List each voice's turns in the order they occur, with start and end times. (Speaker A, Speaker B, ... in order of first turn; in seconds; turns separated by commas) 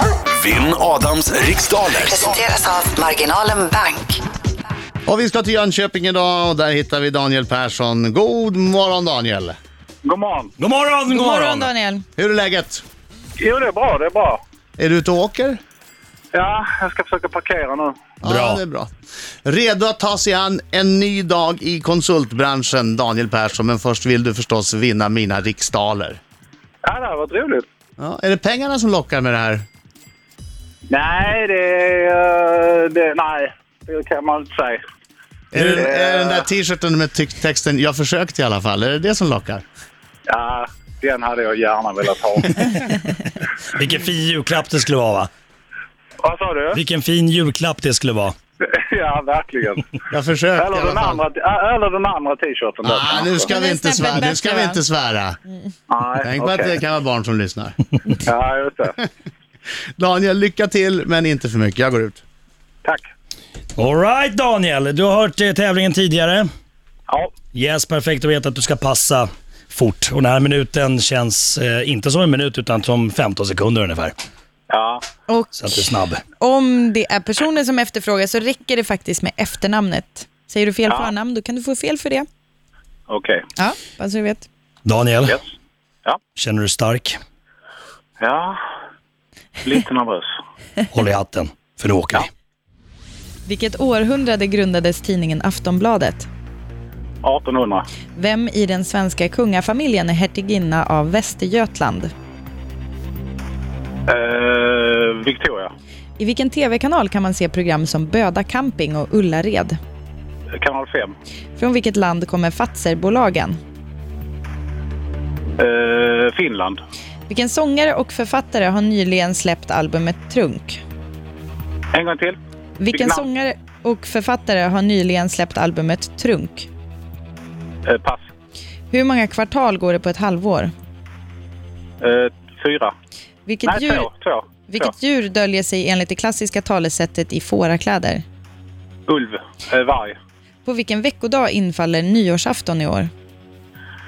Speaker A: 0.3-2.4, Speaker B: 2.1-4.2, Speaker C: 5.1-9.6, Speaker D: 10.0-10.5, Speaker E: 10.6-11.7, Speaker F: 11.1-12.1, Speaker C: 12.2-12.8, Speaker D: 13.4-14.4, Speaker C: 14.8-15.6, Speaker D: 16.3-18.0, Speaker C: 18.2-18.9, Speaker E: 18.2-18.6, Speaker C: 19.4-26.2, Speaker D: 26.8-27.7, Speaker C: 28.0-29.6, Speaker D: 30.9-34.8, Speaker C: 35.5-39.6, Speaker D: 35.6-36.5, Speaker D: 40.3-43.1, Speaker E: 43.7-45.3, Speaker D: 46.2-46.8, Speaker E: 46.7-48.3, Speaker D: 48.6-50.0, Speaker C: 50.1-51.2, Speaker D: 50.6-53.5, Speaker C: 52.8-55.4, Speaker F: 53.5-54.8, Speaker D: 55.9-56.8, Speaker C: 56.2-57.8, Speaker D: 58.2-59.0, Speaker C: 60.0-62.2, Speaker E: 63.8-66.5, Speaker D: 67.1-67.3, Speaker E: 67.5-74.2, Speaker D: 74.7-75.0, Speaker F: 75.3-75.8, Speaker E: 75.6-76.2, Speaker F: 76.4-82.3, Speaker D: 80.9-81.1, Speaker D: 83.1-83.5, Speaker F: 83.6-84.5, Speaker E: 84.8-85.4, Speaker E: 86.3-87.2, Speaker D: 88.2-88.6, Speaker D: 89.6-90.3, Speaker E: 90.9-92.3, Speaker F: 93.5-96.3, Speaker D: 97.2-97.9, Speaker F: 98.2-102.1, Speaker D: 104.1-105.7, Speaker F: 106.2-109.8, Speaker D: 110.6-111.1, Speaker F: 111.6-113.6, Speaker D: 115.6-116.8, Speaker F: 117.3-120.8, Speaker D: 121.9-122.4, Speaker F: 122.8-126.7, Speaker D: 122.9-123.2, Speaker D: 127.9-128.3, Speaker F: 128.9-130.7, Speaker D: 132.0-132.9, Speaker F: 133.5-134.1, Speaker D: 133.7-134.9, Speaker F: 134.7-138.2, Speaker D: 139.1-140.2, Speaker F: 140.7-143.1